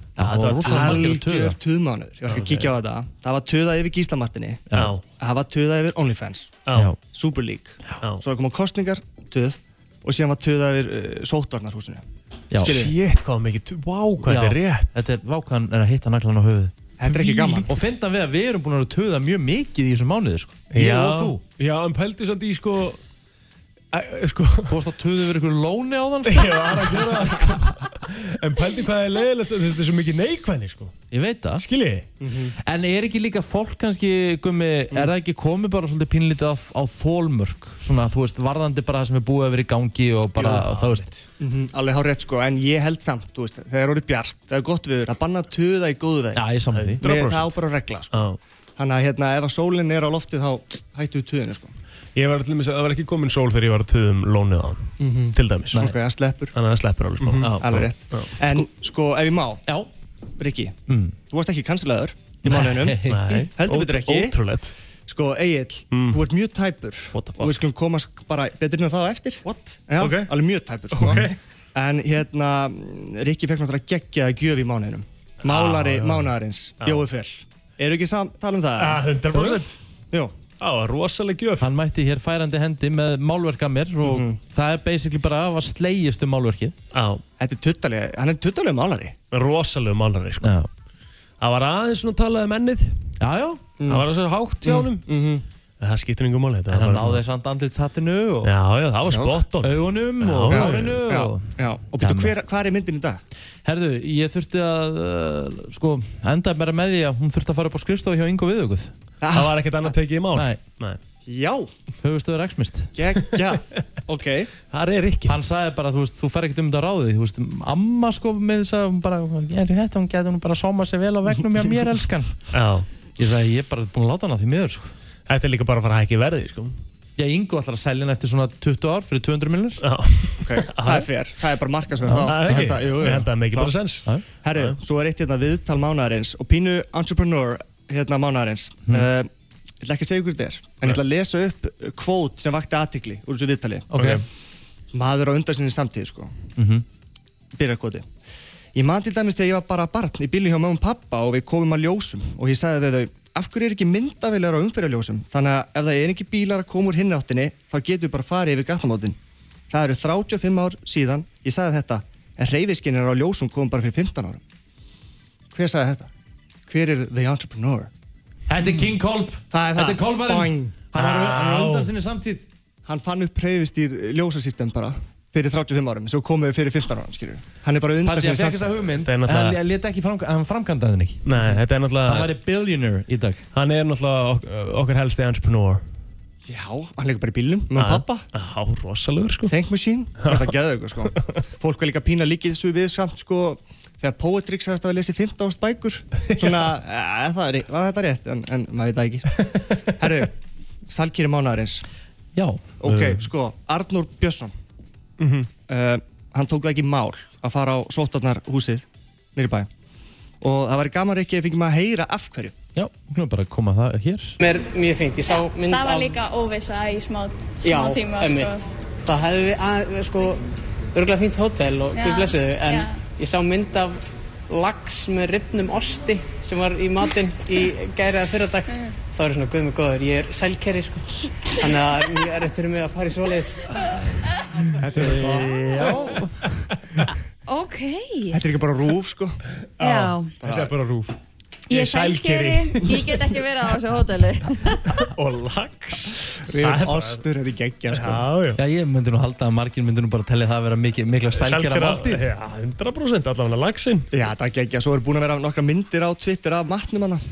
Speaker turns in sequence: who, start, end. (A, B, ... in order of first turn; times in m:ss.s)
0:00.2-0:01.6 A
0:00.2-0:01.1 B
0:00.6-0:04.6 C
0:02.3-0:02.7 B
0:04.7-0:05.0 B
0:05.2-0:12.0 C
0:06.7-0:06.9 B
0:12.5-0:12.8 A
0:12.6-0:13.0 C
0:12.6-0:15.0 B
0:14.2-0:16.8 A
0:17.0-0:17.7 C
0:17.3-0:17.6 B
0:17.7-0:21.4 A
0:20.7-0:23.0 B
0:23.9-0:24.8 B
0:24.7-0:27.6 A
0:26.2-0:30.9 B
0:31.1-0:31.7 A
0:31.6-0:32.1 B
0:32.2-0:32.6 C
0:32.6-0:41.1 A
0:40.4-0:40.8 C
0:41.4-0:46.4 C
0:46.3-0:47.0 A
0:46.7-0:47.6 B
0:47.0-0:51.7 C
0:48.1-0:48.4 B
0:52.2-0:55.9 B
0:55.0-0:56.5 C
0:56.5-0:58.3 B
0:57.2-0:59.6 C
0:57.4-0:57.8 A
0:58.4-0:58.7 A
1:00.4-1:00.8 C
1:00.9-1:01.2 A
1:01.3-1:03.0 C
1:02.4-1:03.5 A
1:03.1-1:04.8 B
1:03.6-1:04.4 C
1:05.1-1:20.3 C
1:05.9-1:06.2 B
1:07.1-1:07.5 B
1:09.5-1:10.3 B
1:10.9-1:11.4 B
1:15.4-1:17.1 B
1:18.8-1:19.8 B
1:20.6-1:21.7 B
1:21.6-1:26.8 A
1:24.0-1:24.4 C
1:26.9-1:27.2 B
1:27.4-1:29.2 C
1:29.3-1:30.6 B
1:30.4-1:30.7 A
1:31.4-1:33.0 B
1:33.2-1:33.6 A
1:33.8-1:34.1 C
1:33.9-1:35.0 B
1:34.6-1:35.4 C
1:35.8-1:37.2 B
1:36.7-1:38.5 A
1:38.4-1:41.0 B
1:39.1-1:39.4 C
1:39.6-1:42.4 A
1:40.5-1:43.2 C
1:43.6-1:48.9 A
1:49.2-1:49.8 C
1:49.3-1:51.0 B
1:50.3-1:50.6 A
1:51.3-1:51.7 C
1:52.0-1:52.9 A
1:53.0-1:54.5 C
1:54.7-1:55.4 B
1:55.3-2:02.5 A
2:02.5-2:02.9 B
2:03.2-2:04.9 A
2:05.3-2:06.7 B
2:07.2-2:09.8 A
2:09.8-2:11.1 B
2:10.4-2:13.8 C
2:12.1-2:12.8 A
2:12.2-2:14.8 B
2:14.4-2:19.3 C
2:19.8-2:23.9 C
2:23.9-2:24.2 A
2:24.0-2:24.2 B
2:24.9-2:26.3 C
2:26.6-2:26.8 A
2:27.6-2:28.1 C
2:28.8-2:39.2 C
2:39.7-2:44.4 C
2:45.5-2:46.1 C
2:46.7-2:47.9 C
2:48.5-2:52.5 A
2:49.5-2:50.8 C
2:51.0-2:51.9 B
2:52.9-2:58.6 C
2:58.0-3:01.3 A
2:59.0-2:59.6 B
3:01.3-3:02.3 B
3:02.0-3:03.5 A
3:03.5-3:05.8 B
3:06.5-3:08.2 C
3:07.8-3:09.5 B
3:09.4-3:20.4 C
3:10.2-3:10.6 B
3:16.3-3:16.7 B
3:20.9-3:21.8 C
3:22.4-3:23.2 A
3:22.8-3:24.5 C
3:25.2-3:25.5 B
3:25.7-3:28.8 C
3:29.4-3:29.7 C
3:30.4-3:32.6 C
3:32.8-3:34.4 A
3:34.4-3:36.2 D
3:35.2-3:38.7 E
3:37.6-3:40.4 D
3:40.9-3:53.9 D
3:42.0-3:43.0 E
3:54.8-3:55.7 C
3:55.2-3:56.5 A
3:57.5-3:58.4 F
3:58.3-3:59.4 C
3:59.8-4:00.3 F
3:59.8-4:01.2 B
4:00.4-4:00.8 C
4:01.7-4:03.2 B
4:01.7-4:05.0 F
4:05.0-4:07.2 B
4:06.5-4:08.3 C
4:07.9-4:08.6 B
4:08.6-4:12.3 A
4:11.3-4:14.1 B
4:14.1-4:17.2 C